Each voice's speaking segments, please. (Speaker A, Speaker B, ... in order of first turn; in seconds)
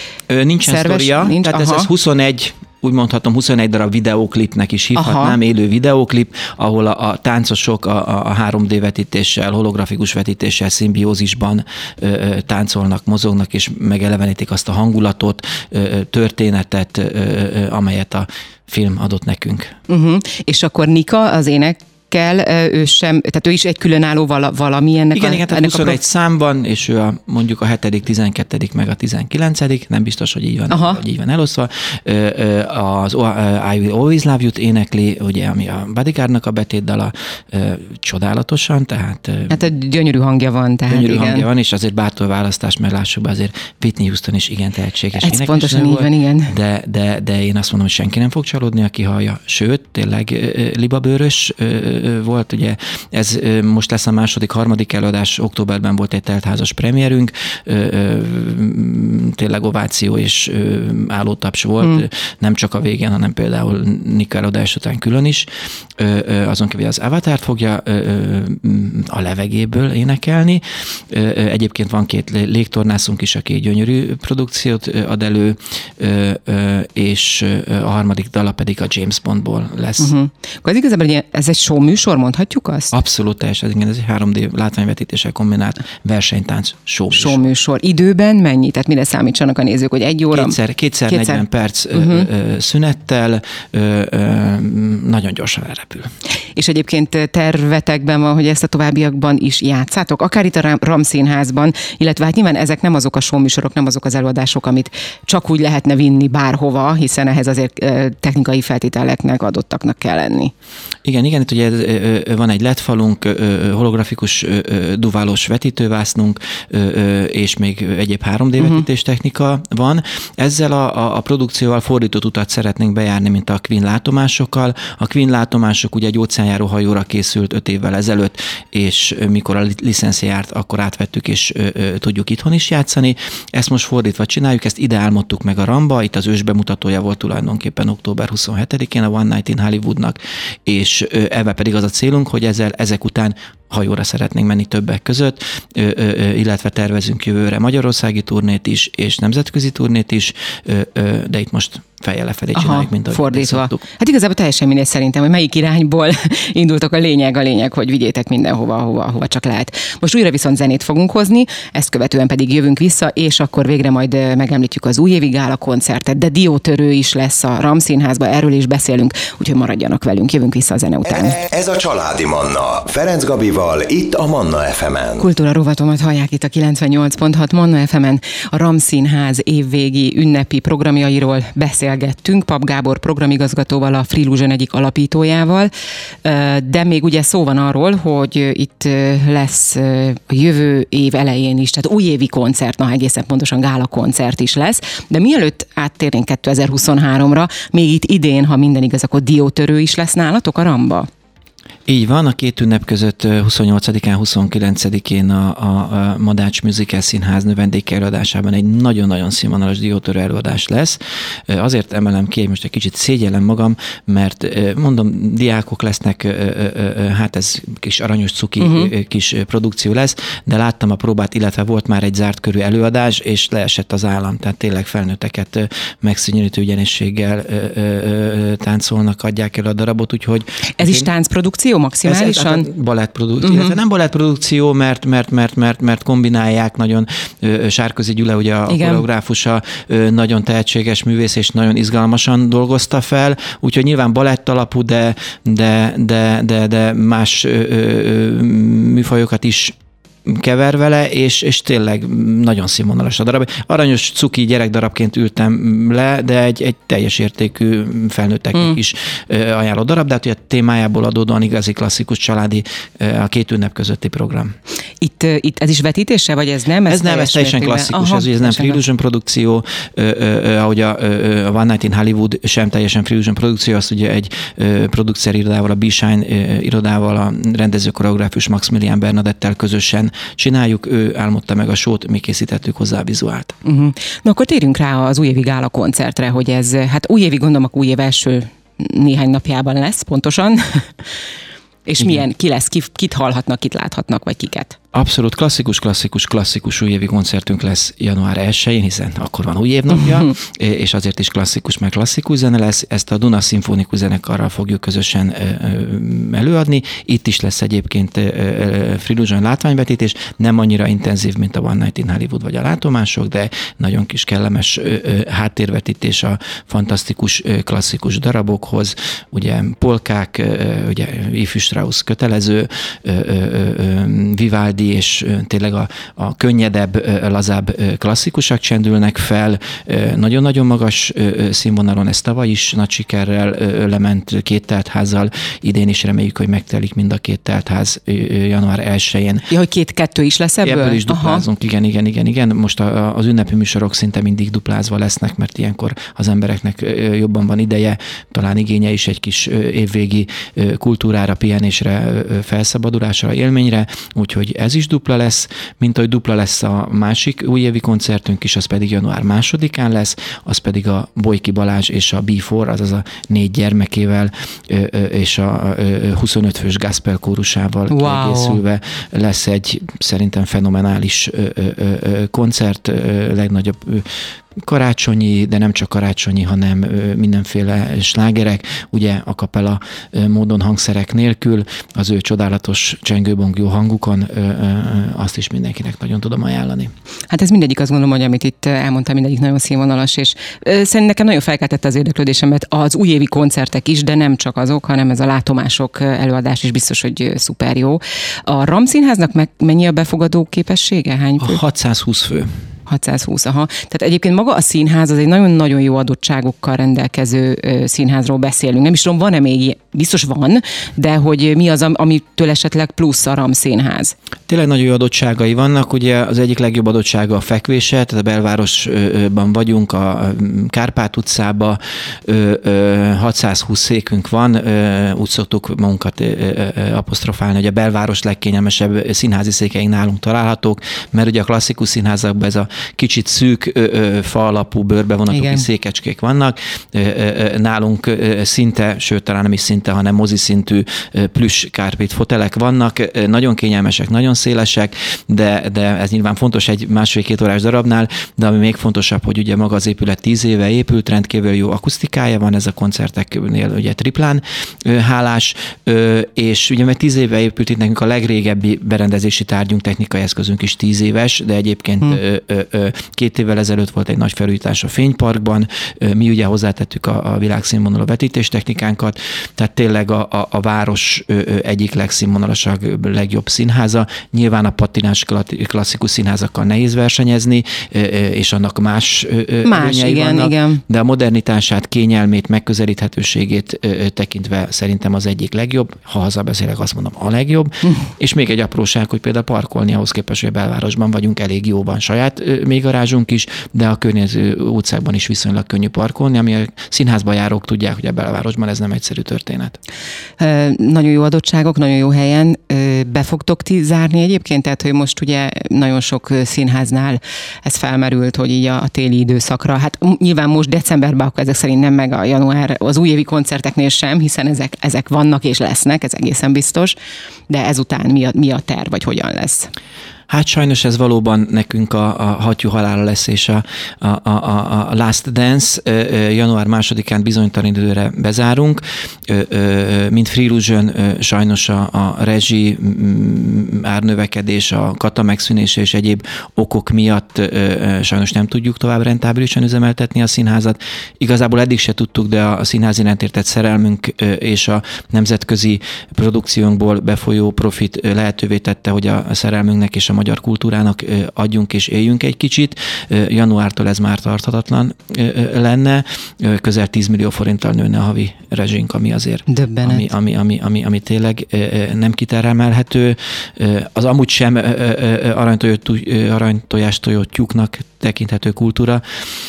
Speaker A: 0.3-19.7, 25.1-39.7, 40.9-80.1, 82.9-87.4, 90.3-96.1, 111.0-153.8, 201.9-231.1, 232.0-249.7, 250.2-264.5, 266.9-283.6, 294.9-339.5, 340.6-386.9, 401.4-402.5, 414.5-499.8, 520.3-569.0
Speaker B: 0.6-1.9, 5.0-5.4, 19.9-26.0, 30.7-31.0, 39.5-41.5, 45.1-46.5, 80.0-82.9, 87.1-90.5, 91.1-92.3, 96.5-110.5, 118.6-118.8, 152.5-171.4, 175.2-185.7, 186.2-201.1, 218.6-218.9, 230.8-232.7, 233.4-233.8, 238.7-239.0, 265.0-268.8, 283.6-290.9, 291.9-294.8, 339.5-341.4, 367.9-368.6, 387.3-401.6, 402.9-414.1, 435.3-435.7, 479.6-480.8, 500.4-516.9, 517.5-519.7, 559.5-560.1
Speaker C: 171.1-175.3